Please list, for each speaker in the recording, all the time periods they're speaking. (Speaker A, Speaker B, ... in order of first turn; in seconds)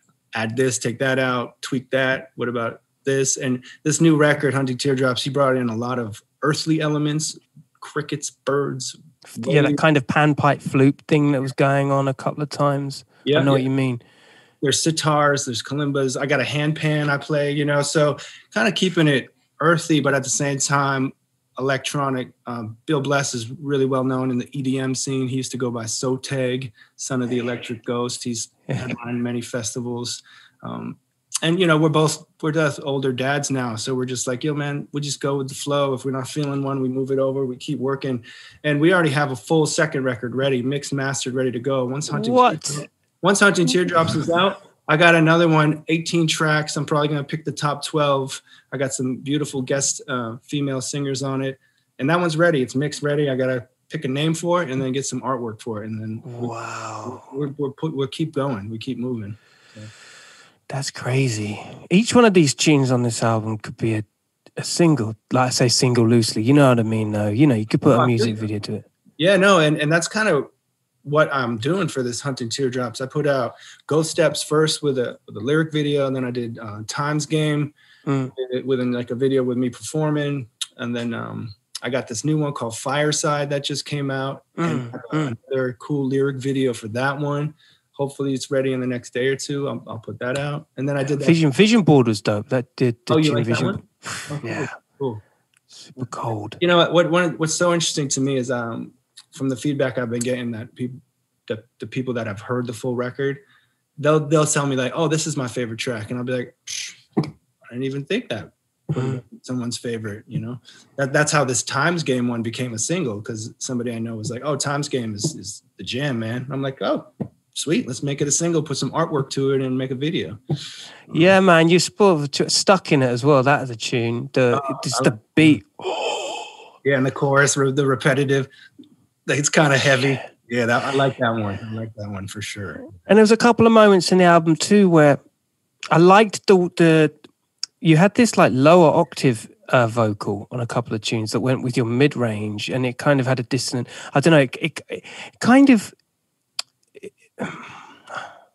Speaker A: 0.3-9.8, 13.2-13.7, 14.6-56.5, 57.0-59.9, 67.9-68.4, 69.2-70.5, 71.0-77.7, 78.3-91.4, 93.1-95.2, 96.6-103.4, 104.0-120.4, 124.5-125.5, 126.8-128.5, 129.2-132.9
Speaker B: 9.3-14.0, 28.7-28.9, 42.1-42.8, 56.2-57.3, 60.7-64.0, 64.6-68.9, 78.0-78.3, 84.6-85.3, 91.2-94.7, 95.7-96.6, 108.9-109.2, 121.1-126.5, 133.0-135.2, 135.9-137.1, 137.8-145.9, 147.0-148.2